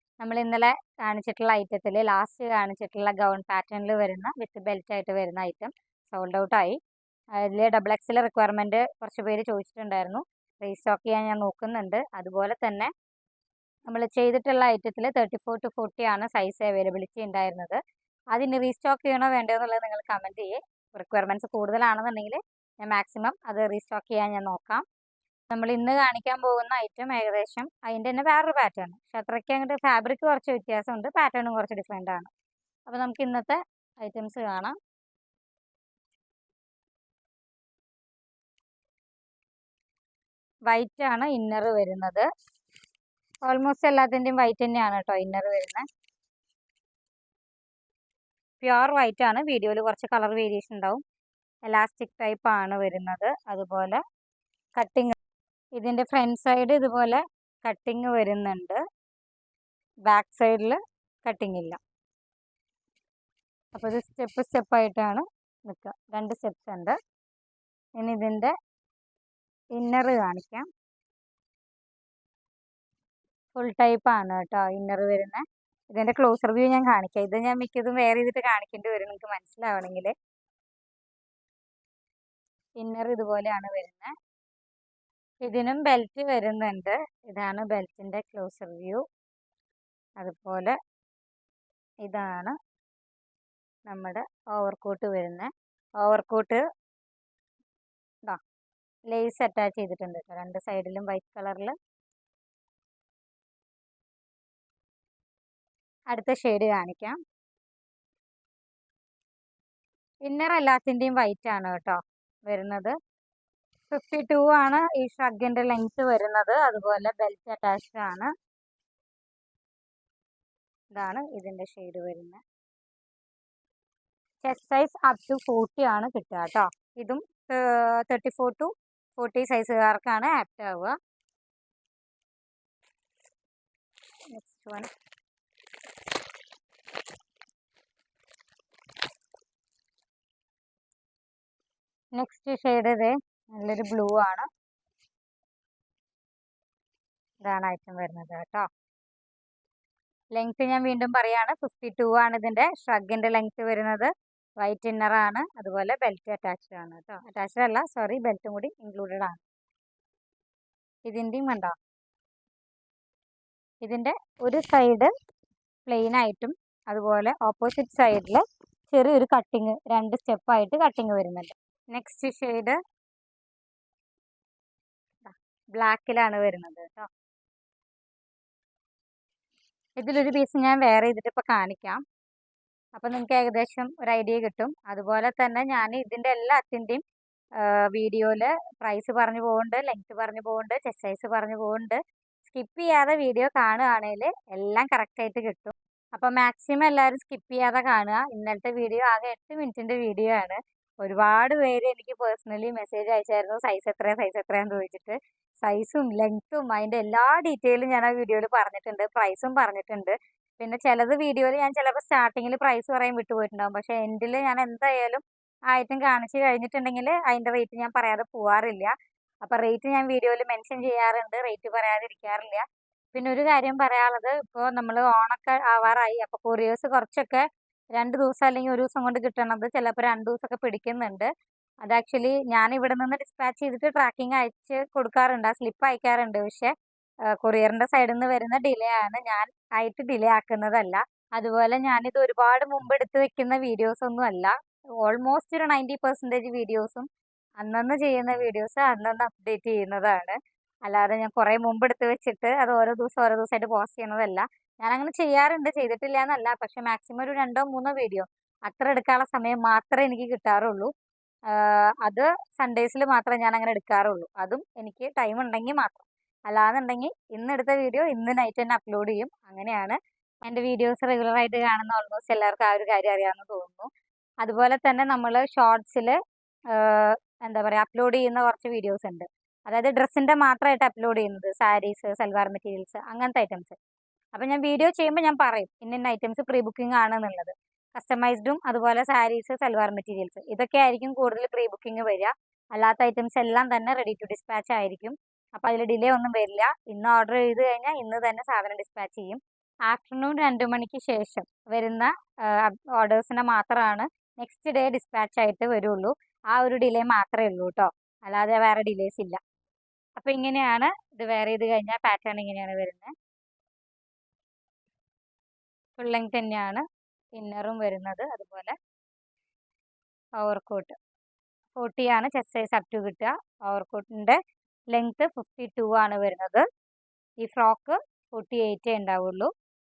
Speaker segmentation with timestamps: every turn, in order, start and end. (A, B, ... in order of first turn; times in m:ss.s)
0:00.2-0:06.8 A
0:07.4-0:12.9 A
0:13.9-0:17.8 A
0:18.3-0:24.8 A
0:25.5-0:32.3 A
0:32.9-0:34.7 A
0:40.7-0:42.3 A
0:43.4-0:45.8 A
0:48.6-0:51.0 A
0:51.6-0:54.0 A
0:54.8-0:55.1 A
0:55.8-0:58.8 A
1:00.1-1:01.8 A
1:03.7-1:07.0 A
1:08.0-1:08.5 A
1:09.7-1:10.7 A
1:13.5-1:15.4 A
1:15.9-1:20.1 A
1:22.8-1:24.1 A
1:25.4-1:29.0 A
1:30.2-1:30.7 A
1:32.0-1:32.5 A
1:33.9-1:36.6 A
1:39.1-1:41.7 A
1:46.1-1:47.2 A
1:50.2-1:52.9 A
1:53.9-1:58.3 A
2:00.9-2:02.4 A
2:04.4-2:10.9 A
2:14.3-2:14.9 A
2:22.2-2:24.5 A
2:27.4-2:28.6 A
2:30.3-2:39.4 A
2:41.1-2:41.8 A
2:43.8-2:45.1 A
2:45.9-2:52.8 A
2:55.2-2:57.1 A
3:00.0-3:02.0 A
3:03.0-3:07.0 A
3:07.6-3:38.9 A
3:39.4-3:51.3 A
3:51.8-3:56.7 A
3:57.4-4:07.1 A
4:07.6-4:10.4 A
4:10.9-4:20.9 A
4:21.5-4:33.9 A
4:34.4-4:36.2 A
4:36.7-4:43.8 A
4:44.3-5:09.4 A
5:10.2-5:13.1 A
5:16.0-5:16.8 A
5:17.4-5:18.7 A
5:20.4-5:20.9 A
5:21.8-5:24.4 A
5:24.9-5:26.6 A
5:27.4-5:29.5 A